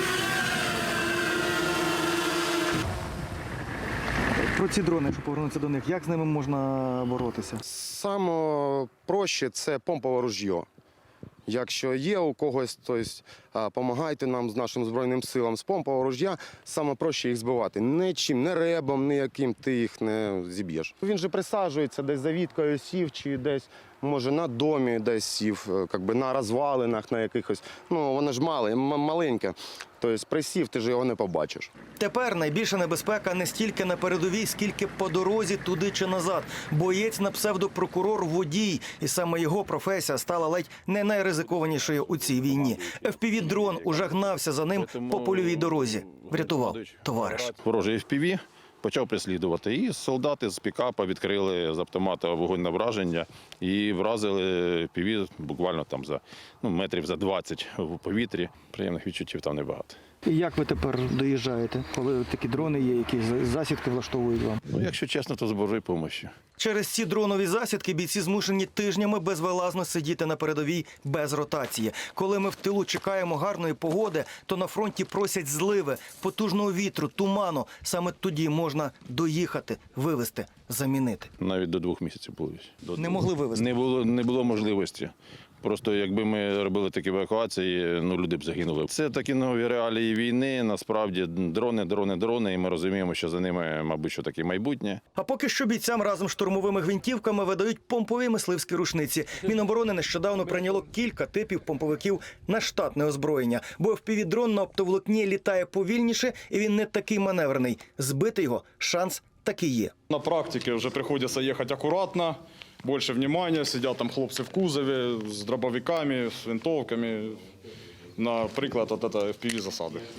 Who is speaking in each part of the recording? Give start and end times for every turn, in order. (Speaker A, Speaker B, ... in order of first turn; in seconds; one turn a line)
Speaker A: 4.5-7.6
Speaker B: 7.6-10.7
Speaker B: 11.5-31.7
Speaker A: 32.0-47.5
Speaker C: 41.5-60.0
Speaker A: 60.2-64.6
Speaker C: 64.7-66.3
Speaker A: 66.6-81.3
Speaker C: 81.4-95.0
Speaker A: 83.0-83.7
Speaker A: 95.2-109.9
Speaker D: 110.1-117.3
Speaker D: 118.2-120.0